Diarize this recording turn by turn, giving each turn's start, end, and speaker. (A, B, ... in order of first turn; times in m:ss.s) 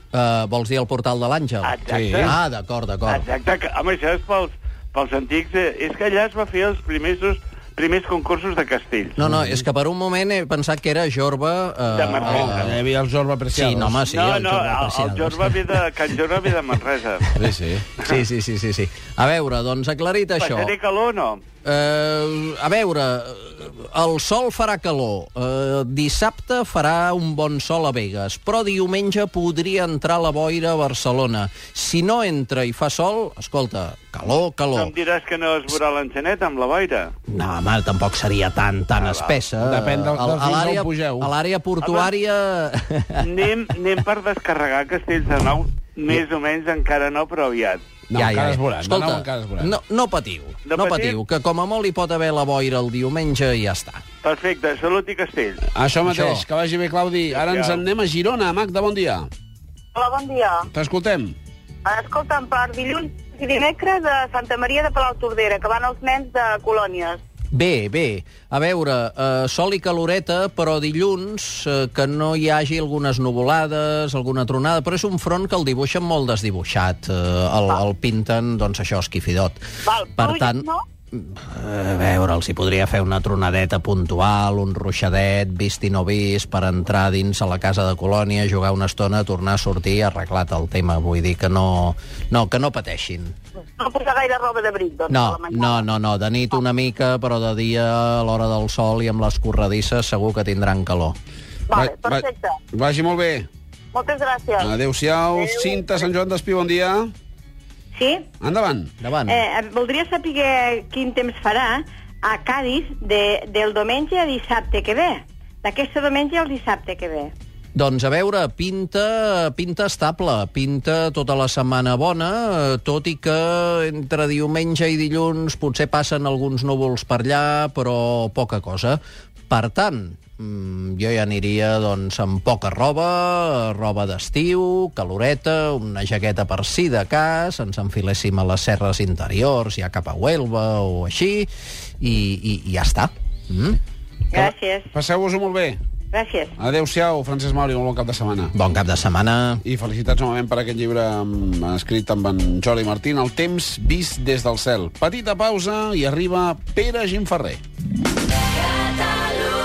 0:00.1-0:03.2 A
0:01.6-0:02.3 B
0:01.9-0:02.3 C
0:03.1-0:09.2 B
0:09.2-0:12.8 A
0:11.9-0:12.6 B
0:12.2-0:14.0 C
0:13.5-0:15.7 A
0:14.1-0:17.3 B
0:17.4-0:17.8 C
0:18.0-0:20.7 A
0:20.4-0:21.4 B
0:21.6-0:34.9 A
0:34.7-0:37.1 B
0:37.3-0:43.5 A
0:39.0-0:39.4 B
0:39.6-0:41.3 C
0:41.8-0:42.1 B
0:43.2-0:47.8 B
0:48.1-0:49.7 C
0:48.1-0:54.0 A
0:50.7-0:51.2 B
0:54.2-0:55.7 B
0:55.7-0:59.3 C
0:56.0-0:56.4 A
0:57.3-0:57.8 B
0:59.9-1:00.6 D
1:00.7-1:01.3 C
1:01.8-1:07.2 D
1:07.5-1:19.6 A
1:19.9-1:20.8 D
1:20.2-1:33.3 A
1:33.8-1:35.8 D
1:35.1-1:41.2 A
1:41.7-1:42.5 D
1:41.7-1:43.5 C
1:43.9-1:44.7 D
1:44.6-1:47.1 C
1:45.3-1:45.8 D
1:48.4-1:48.9 C
1:49.0-1:49.4 A
1:49.3-1:57.3 E
1:57.7-2:23.8 A
2:24.3-2:24.8 E
2:24.3-2:25.8 C
2:26.1-2:26.5 E
2:26.6-2:28.5 C
2:28.5-2:29.6 A
2:29.6-2:37.6 C